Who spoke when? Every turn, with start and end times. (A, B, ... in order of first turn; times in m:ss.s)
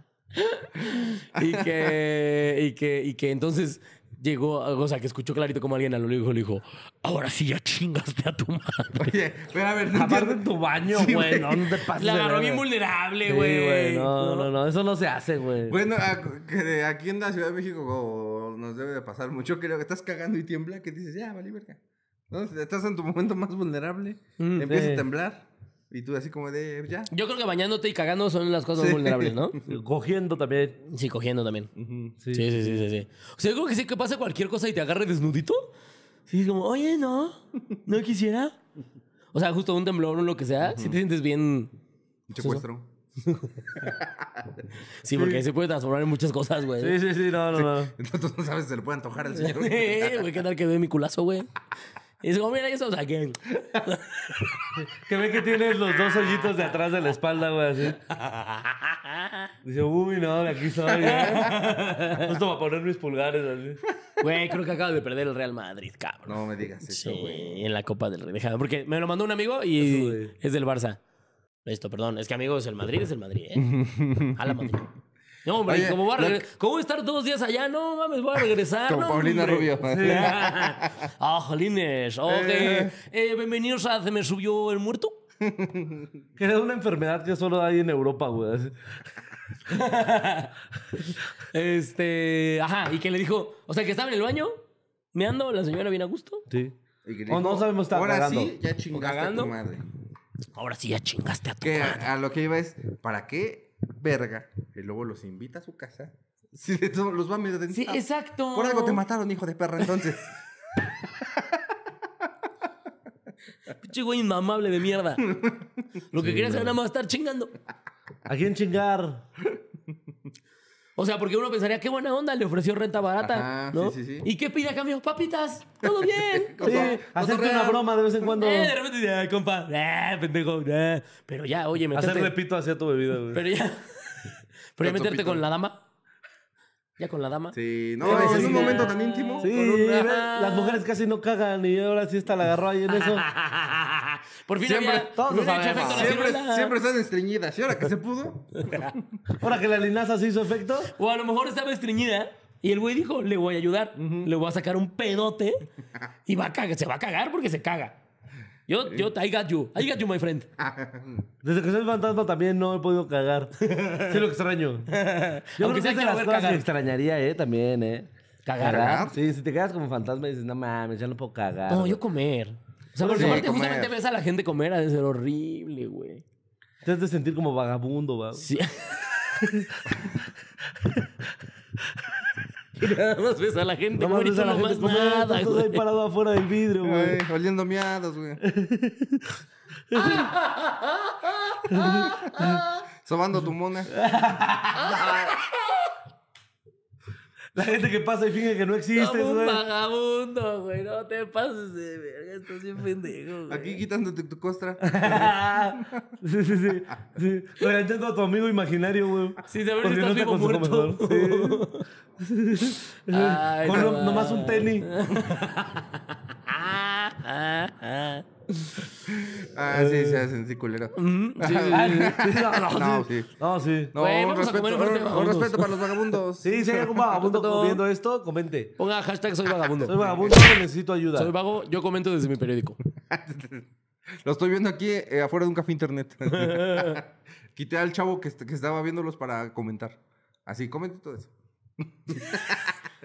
0:00.3-0:09.1 A
0:00.9-0:01.9 B
0:09.0-0:11.7 B
0:09.9-0:12.6 C
0:11.9-0:14.5 A
0:13.2-0:15.8 C
0:15.7-0:27.1 B
0:24.4-0:24.7 A
0:24.7-0:25.0 C
0:27.1-0:29.6 A
0:28.8-0:29.6 B
0:29.7-0:30.8 C
0:30.8-0:31.7 A
0:31.8-0:32.2 B
0:32.2-0:32.8 C
0:32.3-0:35.7 A
0:36.3-0:38.6 A
0:39.3-0:41.7 A
0:40.6-0:41.0 B
0:42.3-0:42.9 B
0:42.4-0:42.6 A
0:43.2-0:43.8 A
0:43.8-0:44.6 B
0:45.0-0:47.0 A
0:45.1-0:45.4 C
0:46.8-0:47.9 C
0:47.5-0:50.3 B
0:49.3-0:51.5 A
0:52.2-0:54.7 A
0:54.9-0:58.0 C
0:58.1-0:59.5 A
0:59.6-1:03.8 C
1:01.0-1:02.2 A
1:04.2-1:11.0 A
1:06.2-1:07.6 B
1:09.8-1:10.3 C
1:11.6-1:13.7 A
1:13.5-1:14.7 B
1:14.3-1:14.9 A
1:15.4-1:25.2 A
1:15.6-1:16.5 B
1:18.8-1:20.9 B
1:19.8-1:20.4 C
1:22.2-1:22.9 B
1:25.4-1:26.1 B
1:26.4-1:28.8 C
1:29.7-1:30.5 A
1:31.5-1:34.6 A
1:35.1-1:36.4 A
1:36.5-1:36.7 C
1:37.0-1:39.8 B
1:37.3-1:38.5 C
1:38.9-1:39.5 A
1:40.5-1:42.1 A
1:41.6-1:51.7 B
1:47.7-1:49.0 A
1:53.8-1:55.3 A
1:55.3-1:55.7 B
1:56.1-1:57.5 A
1:56.2-1:56.8 C
1:58.2-1:59.2 C
2:01.0-2:07.0 A
2:03.2-2:04.3 B
2:05.8-2:07.8 B
2:06.6-2:08.7 C
2:08.3-2:12.3 A
2:11.9-2:13.4 C
2:13.3-2:15.8 A
2:14.8-2:15.4 B
2:17.0-2:20.8 A
2:17.5-2:19.5 B
2:18.0-2:23.3 C
2:22.9-2:26.7 A
2:24.6-2:25.1 B
2:25.1-2:26.2 C
2:25.7-2:29.2 B
2:28.6-2:28.9 A
2:29.4-2:30.9 C
2:30.9-2:35.7 A
2:34.0-2:34.3 B
2:36.3-2:38.0 A
2:38.7-2:40.5 A
2:40.6-2:41.3 B
2:41.4-2:44.9 C
2:43.6-2:44.2 A
2:44.9-2:46.6 A
2:45.6-2:48.1 C
2:48.4-2:49.1 A
2:48.6-2:52.0 C
2:48.6-2:49.2 B
2:51.7-2:56.2 A
2:53.0-2:53.5 C
2:53.1-2:53.9 B
2:56.8-2:58.5 C
2:58.4-2:59.4 A
2:59.4-3:00.0 C
3:02.8-3:05.8 A
3:04.0-3:07.2 C
3:06.8-3:08.4 B
3:08.4-3:10.3 C
3:09.9-3:12.8 A
3:11.7-3:12.6 C
3:13.0-3:13.9 B
3:13.9-3:15.3 C
3:14.7-3:15.9 A
3:17.5-3:19.6 C
3:18.9-3:23.8 A
3:23.5-3:26.0 B
3:24.8-3:34.9 C
3:29.4-3:31.8 A
3:33.1-3:38.8 A
3:39.1-3:43.3 B
3:39.7-3:40.2 C
3:40.9-3:42.2 A
3:41.7-3:43.9 C
3:43.9-3:46.9 B
3:44.0-3:45.7 A
3:46.4-3:48.7 C
3:47.1-3:47.8 A
3:48.8-3:50.0 A
3:49.8-3:51.3 C
3:49.9-3:50.4 B
3:51.1-3:52.8 A
3:53.1-3:53.6 B
3:54.2-4:01.3 B
3:56.3-3:57.0 A
4:02.0-4:02.8 B